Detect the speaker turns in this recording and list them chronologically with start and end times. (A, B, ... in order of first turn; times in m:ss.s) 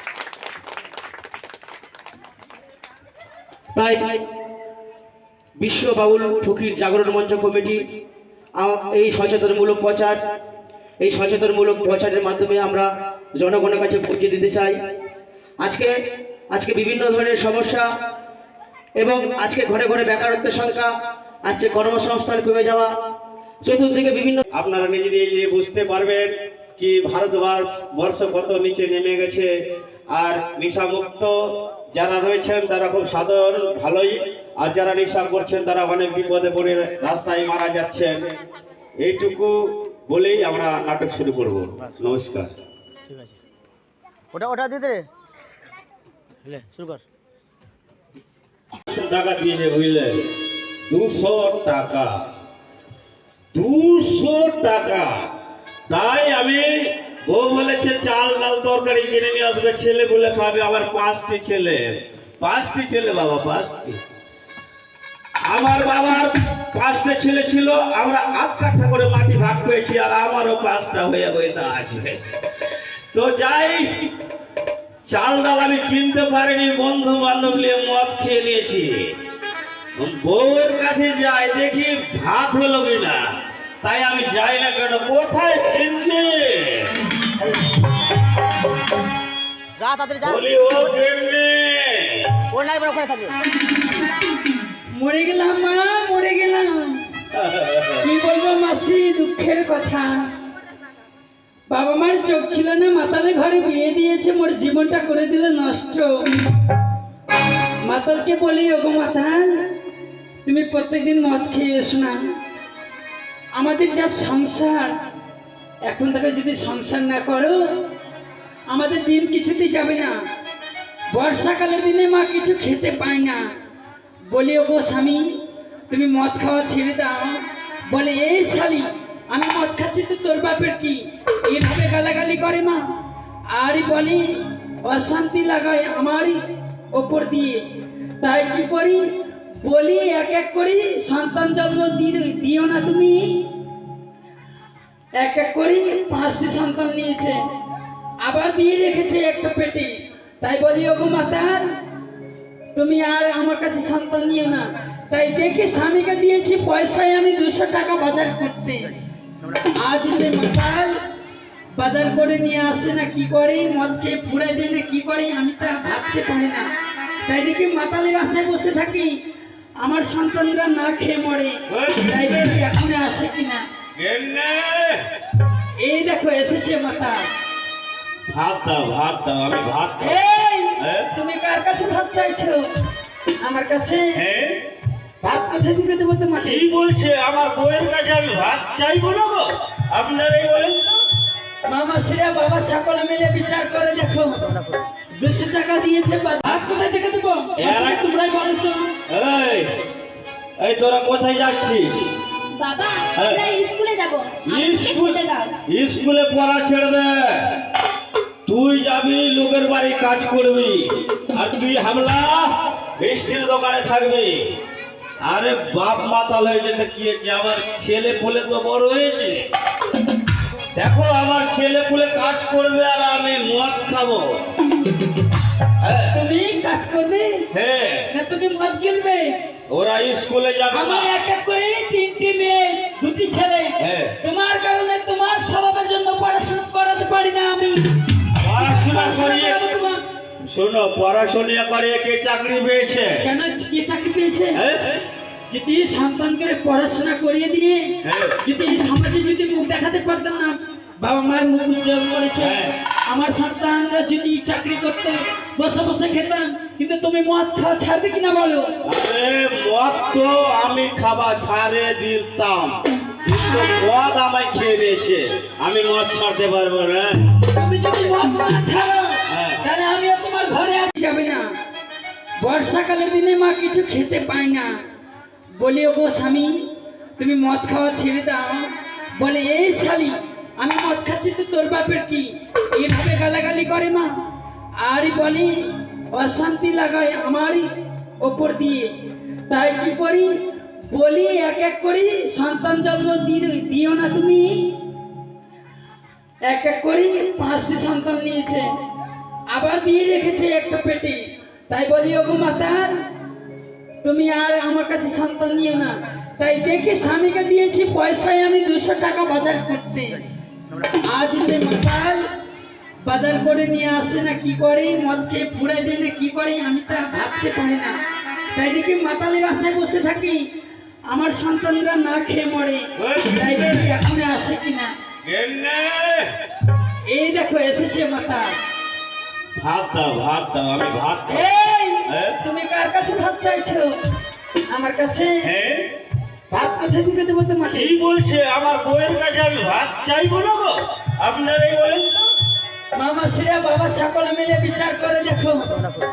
0:03.7-0:04.2 A
0:05.6-0:07.8 A
0:08.6-0:10.2 A
0:11.0-0:14.9 A
0:15.6-0:15.9 A
0:16.5-0:17.9 A
0:19.0-0:20.9 A
0:21.4-0:22.9 A
0:23.6-0:24.4 A
0:24.5-0:29.5 B
0:30.1-0:31.3 B
0:31.9-0:38.2 B
0:39.0-0:42.5 B
0:44.3-0:45.1 C
0:46.5-0:47.0 C
0:48.9-0:52.1 B
0:53.5-0:55.3 B
0:55.9-1:04.0 B
1:05.4-1:12.2 B
1:13.1-1:14.1 B
1:15.0-1:19.1 B
1:20.0-1:23.2 B
1:23.8-1:27.0 B
1:29.8-1:30.4 C
1:30.2-1:32.5 B
1:32.5-1:33.4 C
1:34.9-1:37.1 D
1:37.3-1:38.1 B
1:38.0-1:40.1 D
1:41.7-1:46.1 D
1:47.8-1:49.7 D
1:50.4-1:52.2 D
1:53.5-1:54.9 D
1:55.8-1:57.6 D
1:58.7-2:00.1 D
2:01.1-2:03.4 D
2:04.3-2:05.2 D
2:05.9-2:12.8 D
2:13.5-2:16.4 D
2:16.9-2:17.6 D
2:18.2-2:19.1 D
2:19.6-2:23.5 D
2:25.2-2:27.4 D
2:28.2-2:31.7 D
2:32.7-2:39.0 D
2:39.8-2:40.9 D
2:41.7-2:46.6 D
2:47.2-2:49.1 D
2:49.8-2:53.6 D
2:51.7-2:52.6 B
2:54.0-2:55.1 B
2:55.8-2:57.2 D
2:58.3-3:00.2 B
3:00.0-3:02.7 D
3:00.8-3:01.1 B
3:03.4-3:04.2 D
3:04.1-3:04.6 B
3:05.2-3:06.6 D
3:06.4-3:10.8 B
3:11.6-3:14.5 D
3:14.5-3:14.8 C
3:15.1-3:18.8 D
3:17.6-3:18.0 B
3:19.1-3:19.8 B
3:20.6-3:22.2 B
3:22.6-3:25.5 E
3:23.1-3:23.5 B
3:24.4-3:27.6 B
3:28.4-3:34.4 B
3:35.2-3:39.4 B
3:40.7-3:44.5 B
3:45.8-3:46.2 B
3:46.1-3:47.4 D
3:47.5-3:48.1 B
3:48.1-3:49.2 D
3:49.7-3:51.1 B
3:50.7-4:00.0 D
3:53.8-3:54.2 B
3:58.4-3:59.6 B
4:00.4-4:03.2 B
4:03.2-4:04.6 D
4:04.5-4:05.0 B
4:05.5-4:18.7 D
4:08.0-4:08.4 B
4:12.4-4:12.7 B
4:18.8-4:27.4 B
4:27.5-4:31.4 D
4:29.3-4:29.6 B
4:32.4-4:34.7 D
4:35.5-4:44.1 D
4:44.8-4:47.7 D
4:48.2-4:48.9 D
4:49.5-4:50.4 D
4:50.9-4:54.8 D
4:56.5-4:58.7 D
4:59.5-5:03.0 D
5:04.0-5:10.3 D
5:11.0-5:12.2 D
5:13.0-5:18.0 D
5:18.5-5:20.4 D
5:21.1-5:24.9 D
5:23.0-5:23.8 B
5:25.2-5:26.3 B
5:27.1-5:28.5 D
5:29.6-5:31.5 B
5:31.3-5:34.0 D
5:32.0-5:32.4 B
5:34.7-5:35.5 D
5:35.4-5:35.9 B
5:36.5-5:37.9 D
5:37.7-5:42.2 B
5:42.9-5:45.8 D